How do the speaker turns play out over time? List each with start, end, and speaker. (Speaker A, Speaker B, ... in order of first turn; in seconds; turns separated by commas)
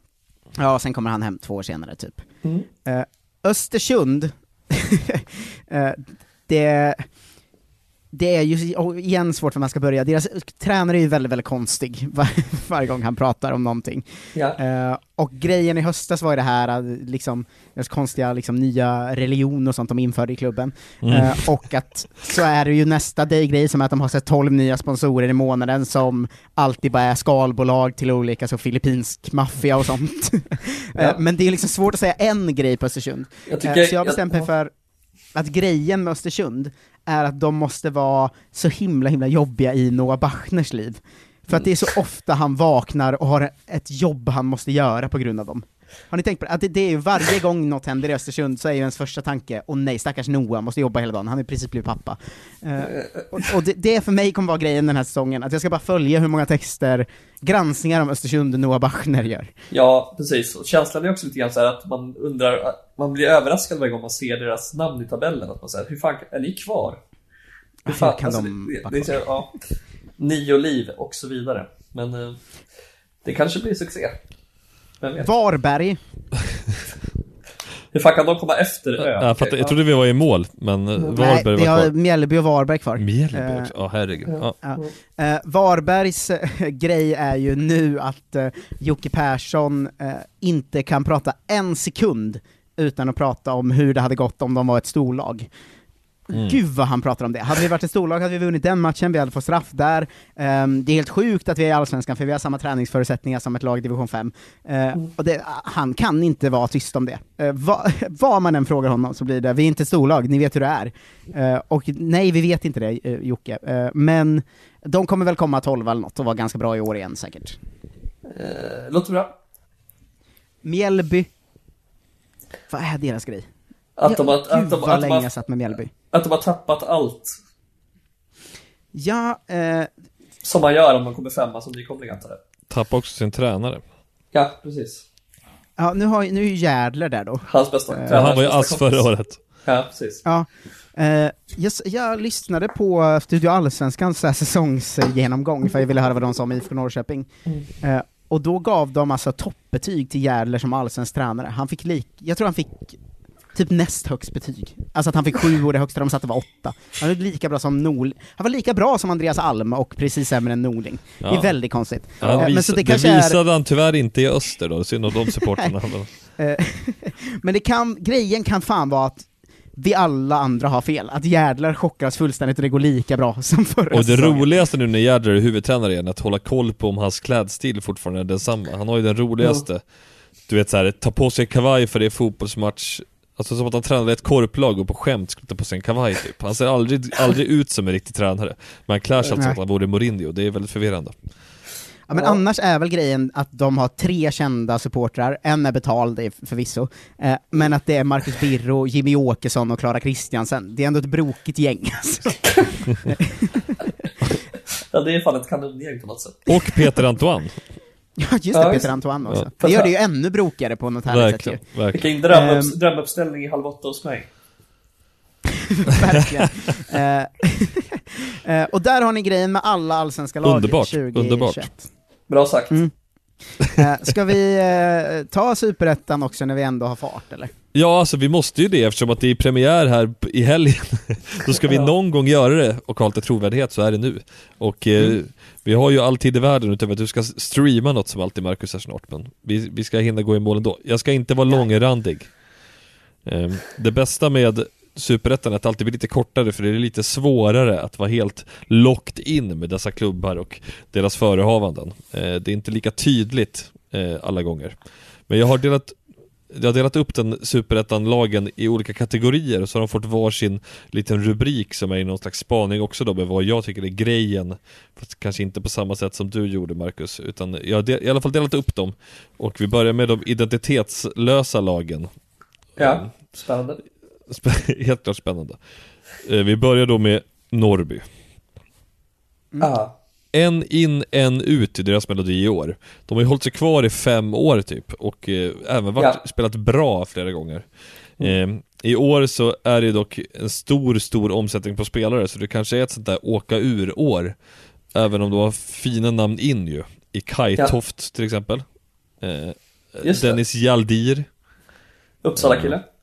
Speaker A: 0.6-2.2, Speaker A: 2.8-7.0, Speaker A: 8.1-34.7, Speaker B: 21.0-21.4, Speaker C: 33.5-34.5, Speaker A: 35.3-59.5, Speaker C: 52.8-53.2, Speaker C: 59.7-67.0, Speaker A: 67.8-69.3, Speaker C: 67.9-69.5, Speaker C: 70.2-72.4, Speaker C: 73.2-74.2, Speaker C: 75.0-75.3, Speaker A: 75.2-76.0, Speaker C: 77.9-79.8, Speaker B: 79.0-81.9, Speaker A: 81.1-83.7, Speaker B: 83.0-84.5, Speaker C: 84.3-84.9, Speaker A: 84.6-95.5, Speaker A: 96.3-117.6, Speaker B: 96.3-96.6, Speaker C: 118.2-119.3, Speaker A: 120.6-121.3, Speaker A: 122.7-123.5, Speaker C: 124.0-125.3, Speaker A: 124.0-125.9, Speaker C: 126.1-127.3, Speaker A: 128.9-129.9, Speaker C: 130.4-132.4, Speaker B: 132.7-133.8, Speaker C: 134.3-135.0, Speaker A: 135.8-138.3, Speaker C: 137.5-139.1, Speaker B: 138.1-139.4, Speaker C: 139.6-140.2, Speaker A: 140.2-147.3, Speaker A: 147.8-153.0, Speaker A: 153.5-163.4, Speaker B: 161.2-161.5, Speaker C: 162.2-162.5, Speaker B: 162.2-166.1, Speaker A: 166.4-174.5, Speaker B: 173.9-179.8, Speaker B: 180.5-191.1, Speaker A: 192.1-203.7, Speaker C: 202.5-202.8, Speaker C: 204.9-206.4, Speaker B: 206.5-207.6, Speaker A: 208.2-211.6, Speaker C: 208.5-208.9, Speaker C: 209.6-209.9, Speaker B: 211.1-212.1, Speaker C: 211.9-214.3, Speaker A: 212.3-212.8, Speaker A: 215.8-221.9, Speaker B: 220.4-221.7, Speaker C: 222.3-222.8, Speaker A: 223.6-227.5, Speaker B: 227.7-242.3, Speaker B: 243.2-254.7, Speaker B: 255.3-255.9, Speaker B: 256.5-272.1, Speaker B: 272.8-273.1, Speaker C: 272.8-273.8, Speaker B: 274.3-275.6, Speaker B: 276.2-278.0, Speaker C: 279.6-279.9, Speaker B: 280.3-287.6, Speaker B: 288.2-294.4, Speaker B: 294.9-298.6, Speaker B: 299.2-301.3, Speaker C: 300.0-300.4, Speaker C: 302.2-302.8, Speaker B: 302.4-302.8